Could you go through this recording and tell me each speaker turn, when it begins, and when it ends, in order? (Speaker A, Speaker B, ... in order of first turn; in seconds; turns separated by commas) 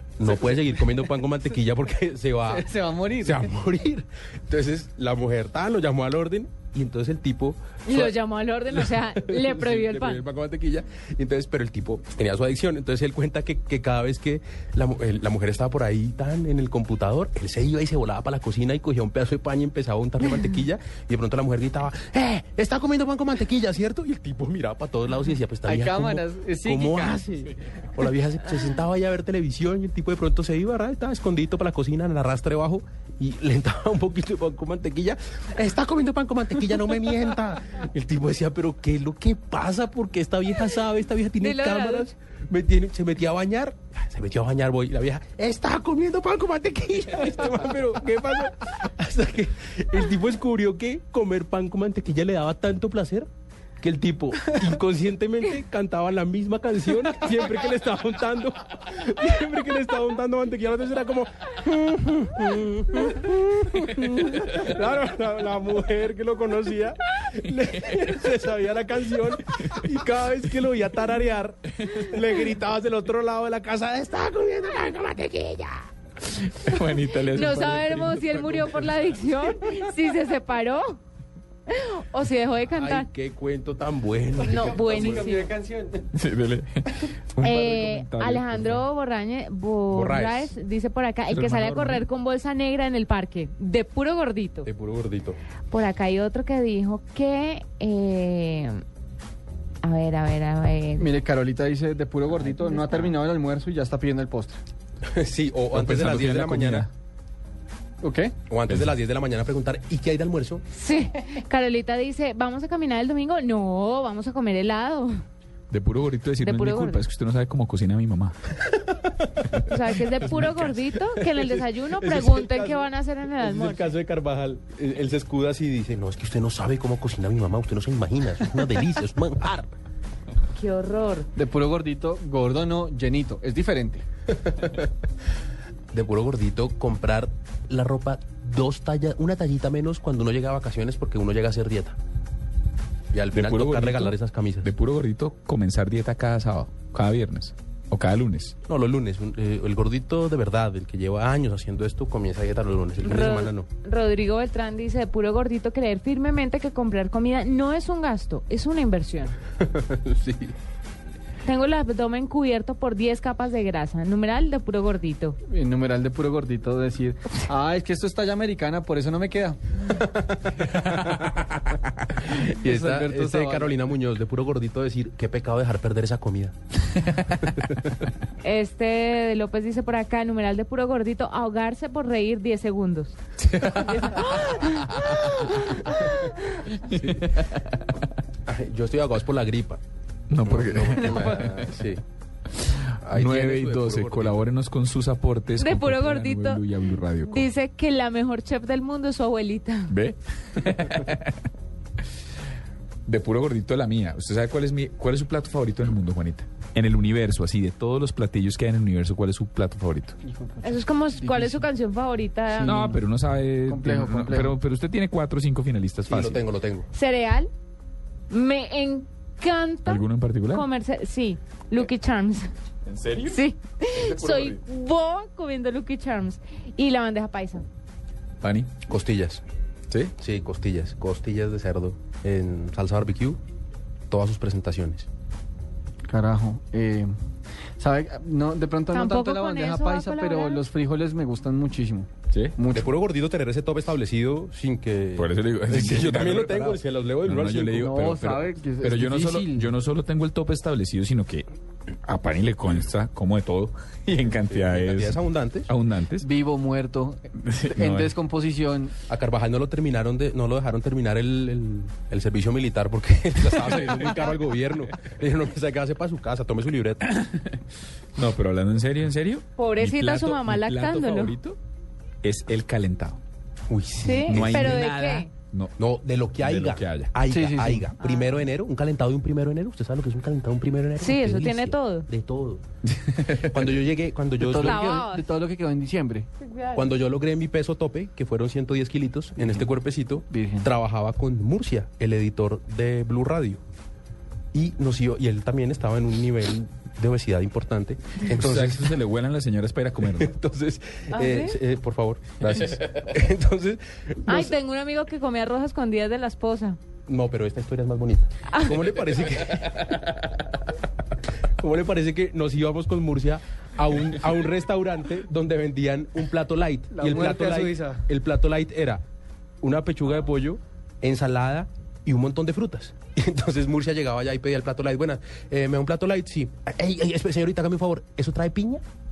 Speaker A: 0.2-8.1, Speaker B: 0.2-1.1, Speaker B: 2.5-3.5, Speaker C: 7.9-10.2, Speaker A: 8.7-53.3, Speaker B: 25.6-27.2, Speaker C: 41.4-42.1, Speaker A: 53.8-75.8, Speaker D: 76.8-78.1, Speaker C: 77.3-81.0, Speaker A: 78.2-78.8, Speaker C: 81.7-83.1, Speaker A: 82.7-85.5, Speaker C: 84.5-85.5, Speaker B: 84.5-86.0, Speaker D: 86.2-86.6, Speaker D: 87.4-88.8, Speaker C: 87.4-94.7, Speaker A: 89.9-90.5, Speaker D: 91.3-92.0, Speaker A: 94.7-95.4, Speaker C: 95.7-98.8, Speaker C: 99.8-101.1, Speaker B: 101.0-104.6, Speaker C: 102.5-103.1, Speaker A: 105.0-106.9, Speaker D: 105.7-106.9, Speaker B: 108.0-108.3, Speaker A: 108.5-110.6, Speaker C: 110.7-115.2, Speaker D: 115.7-118.3, Speaker C: 116.4-117.0, Speaker A: 118.7-129.7, Speaker C: 119.6-123.9, Speaker C: 130.5-131.3, Speaker B: 131.3-134.0, Speaker A: 134.5-134.9, Speaker A: 135.9-142.0, Speaker A: 143.1-144.7, Speaker D: 143.3-148.6, Speaker A: 148.7-153.7, Speaker C: 153.0-159.4, Speaker A: 159.6-160.5, Speaker C: 161.4-165.4, Speaker B: 165.5-169.7, Speaker A: 169.9-176.6, Speaker B: 172.4-173.8, Speaker A: 177.4-177.8, Speaker C: 178.4-186.8, Speaker D: 186.9-187.9, Speaker A: 188.5-189.8, Speaker D: 190.3-191.6, Speaker A: 190.4-192.0, Speaker B: 191.0-191.3, Speaker D: 192.7-197.5, Speaker A: 193.0-194.5, Speaker C: 195.6-196.7, Speaker C: 197.2-200.0, Speaker D: 199.9-201.3, Speaker D: 203.1-210.2, Speaker B: 210.2-211.7, Speaker C: 210.6-212.9, Speaker B: 212.5-213.0, Speaker D: 212.7-216.4, Speaker B: 213.7-214.6, Speaker A: 216.1-216.9, Speaker C: 216.9-217.5, Speaker C: 218.3-222.5, Speaker D: 219.9-220.7, Speaker D: 222.9-224.6, Speaker C: 223.2-227.7, Speaker D: 228.4-228.7, Speaker A: 228.9-229.4, Speaker A: 230.2-233.4, Speaker A: 234.1-235.1, Speaker B: 236.1-237.1, Speaker B: 237.8-242.9, Speaker C: 238.9-240.6, Speaker A: 242.7-247.9, Speaker D: 245.2-246.8, Speaker D: 247.3-251.5, Speaker B: 247.8-249.8, Speaker D: 252.1-255.2, Speaker A: 254.5-255.7, Speaker D: 255.7-256.3, Speaker B: 256.2-258.9, Speaker D: 257.4-258.1, Speaker A: 259.1-267.0, Speaker D: 267.1-267.4, Speaker D: 268.2-271.6, Speaker C: 269.6-271.4, Speaker D: 272.2-273.2, Speaker A: 273.7-274.9, Speaker C: 274.0-275.3, Speaker D: 274.3-275.7, Speaker A: 275.8-282.6, Speaker D: 276.4-277.0, Speaker B: 277.3-277.9, Speaker C: 278.0-278.4, Speaker C: 281.0-282.1, Speaker D: 282.9-283.4, Speaker A: 283.2-284.8, Speaker B: 284.4-286.3, Speaker C: 284.6-285.3, Speaker C: 286.4-286.9, Speaker A: 286.8-293.6, Speaker B: 290.3-290.7, Speaker A: 294.5-299.0, Speaker D: 298.3-300.3, Speaker A: 300.0-304.6, Speaker C: 301.1-301.6, Speaker C: 304.3-306.8, Speaker A: 307.1-310.4, Speaker A: 311.6-319.0, Speaker B: 316.9-318.0, Speaker A: 319.6-328.8